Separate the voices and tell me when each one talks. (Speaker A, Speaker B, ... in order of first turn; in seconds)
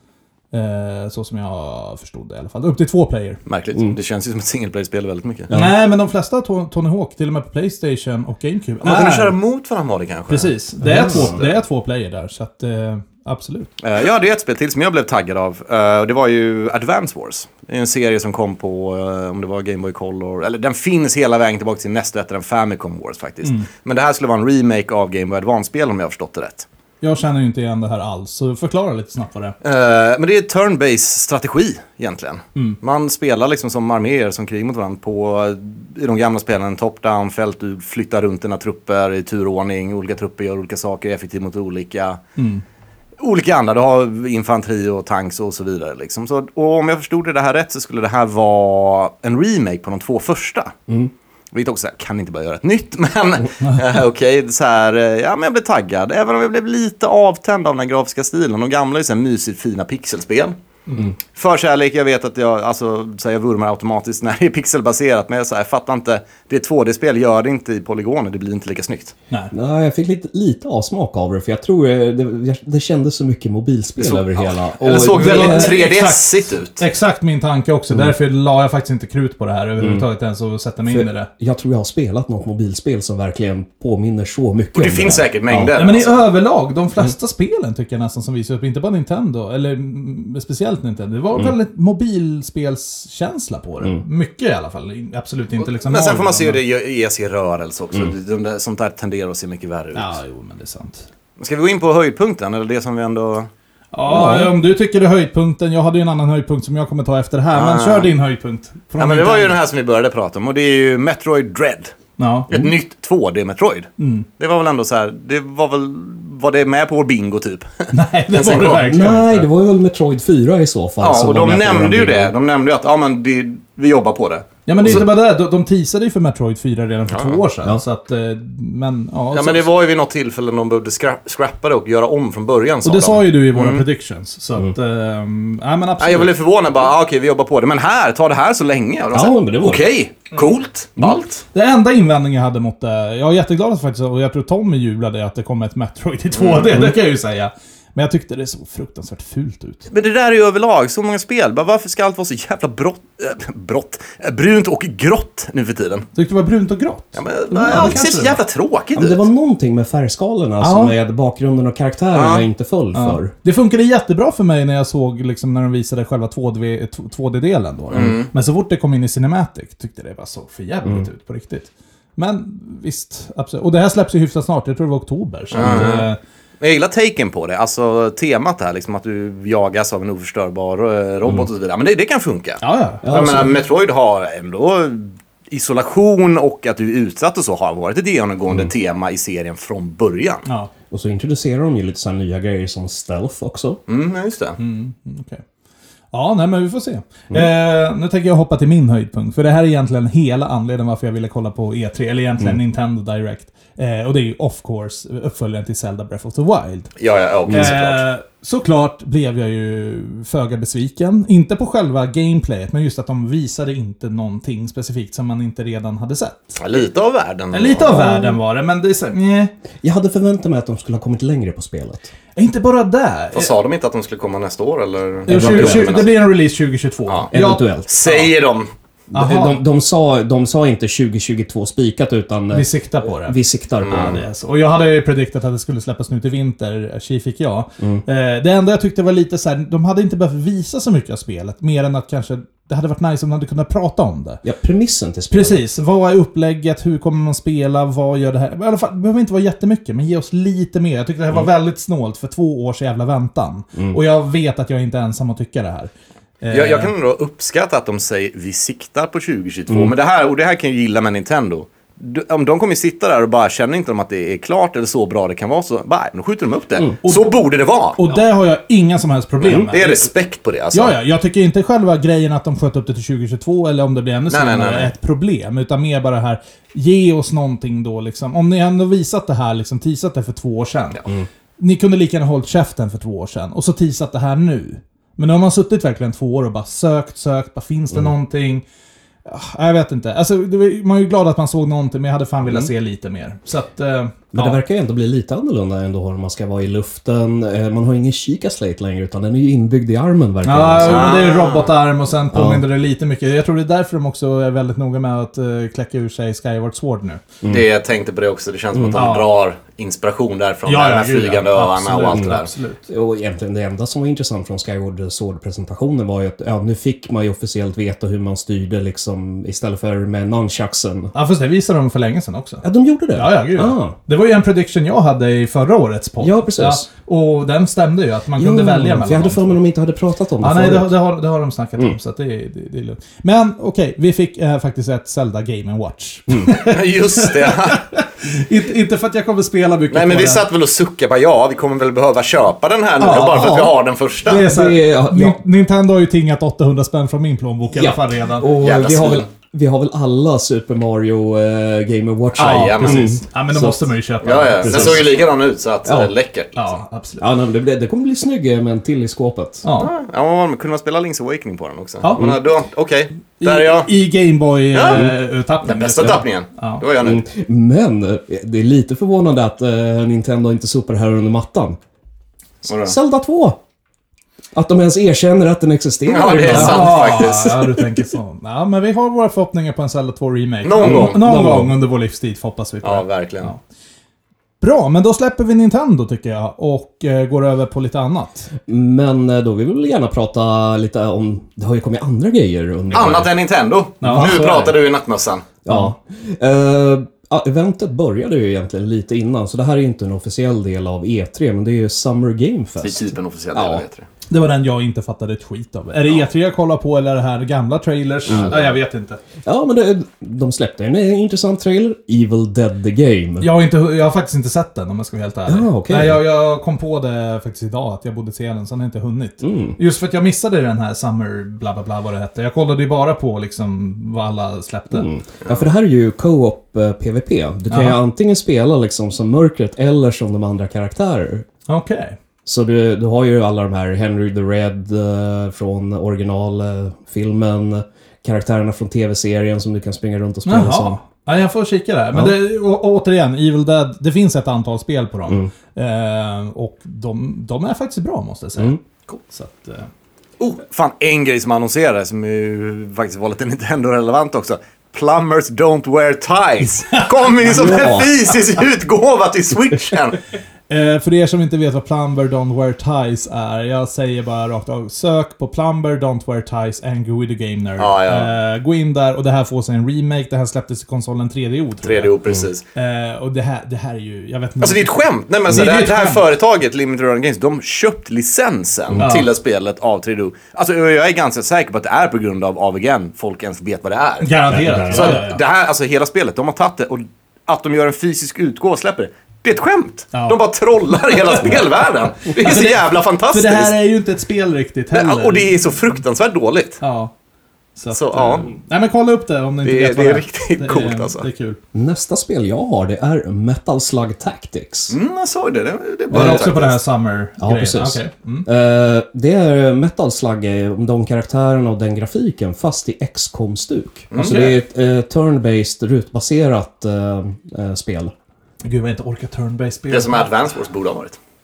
Speaker A: 0.5-3.4, 5.5-9.3, 10.3-13.7, 23.4-23.7, 27.0-29.5, 42.4-42.6, 75.0-81.3, 85.7-96.6, 99.9-101.0, 103.9-109.5, 112.2-112.6, 114.0-114.3, 117.9-119.5, 124.7-129.7, 132.8-136.3, 141.5-149.9, 156.1-158.4, 160.6-160.9, 162.9-176.2, 182.6-183.4, 190.4-190.7, 194.6-195.4, 196.1-206.9, 207.5-216.6, 217.5-219.5, 222.3-223.5, 225.3-228.3, 229.1-229.6, 232.5-244.4, 245.3-256.9, 267.0-267.3, 267.9-270.1, 270.7-281.0, 281.6-288.6, 289.2-294.6, 300.4-307.2, 308.9-309.3, 310.6-312.8, 321.1-322.6, 323.1-329.6, 330.4-340.4, 343.0-348.5, 352.4-355.1, 356.5-357.3, 359.6-359.9, 362.0-362.3, 363.4-366.8, 376.5-383.6, 384.6-388.5, 394.0-394.6, 404.3-409.2, 413.4-425.1, 427.7-428.0, 431.7-432.2, 440.4-449.9, 456.7-458.4, 460.7-472.1, 472.7-476.2, 479.0-479.3, 484.2-485.4, 490.1-490.4, 491.1-491.6, 492.4-495.6, 496.8-497.1, 497.8-501.6, 506.1-508.5, 514.1-514.6, 518.6-520.3
Speaker B: 3.5-5.5, 8.8-10.5, 13.8-26.7, 29.6-42.2, 43.2-50.7, 51.5-60.5, 61.3-69.1, 74.0-76.8, 84.7-86.1, 95.6-100.2, 101.4-103.5, 107.5-108.1, 109.0-111.9, 112.5-118.9, 121.0-125.0, 127.1-127.4, 129.3-133.8, 136.0-141.4, 146.3-146.8, 149.9-156.1, 157.1-159.3, 162.1-162.4, 167.9-168.3, 175.5-176.1, 176.6-190.4, 193.9-194.6, 207.0-208.0, 216.6-218.0, 223.3-226.1, 227.9-228.7, 233.8-234.2, 256.5-268.0, 269.5-270.9, 274.3-274.9, 300.8-301.7, 307.4-312.5, 336.5-337.8, 339.9-344.5, 348.6-349.2, 352.3-353.2, 354.2-356.7, 359.8-363.9, 364.7-367.2, 372.6-372.9, 376.1-377.6, 380.6-381.2, 382.8-383.5, 392.9-395.5, 402.8-404.1, 408.3-408.7, 450.4-460.2, 467.8-468.3, 471.8-472.6, 474.6-493.7, 494.9-496.8, 497.9-498.5, 499.6-501.2, 504.9-506.8, 514.1-514.5, 519.9-521.2
Speaker C: 5.5-5.7, 10.8-11.4, 69.5-75.8, 79.8-80.0, 80.9-85.8, 104.1-104.5, 118.6-122.3, 139.1-139.8, 157.5-158.0, 158.9-163.3, 175.6-176.0, 183.0-183.5, 190.9-193.8, 219.8-222.1, 225.3-226.0, 227.3-227.9, 229.1-234.2, 244.4-245.6, 294.3-301.1, 302.3-302.6, 308.7-309.0, 312.1-321.1, 322.6-323.9, 326.2-326.9, 328.4-330.9, 344.4-345.4, 347.7-353.9, 354.6-355.2, 355.8-356.1, 357.2-359.6, 367.0-371.8, 372.8-373.6, 374.5-377.8, 380.8-381.8, 388.6-393.3, 394.0-394.7, 395.6-403.8, 408.3-408.6, 409.4-413.5, 415.5-416.2, 419.4-419.8, 424.9-431.4, 432.4-441.0, 457.5-458.1, 484.5-485.2, 501.7-504.9, 506.1-506.4, 507.4-518.1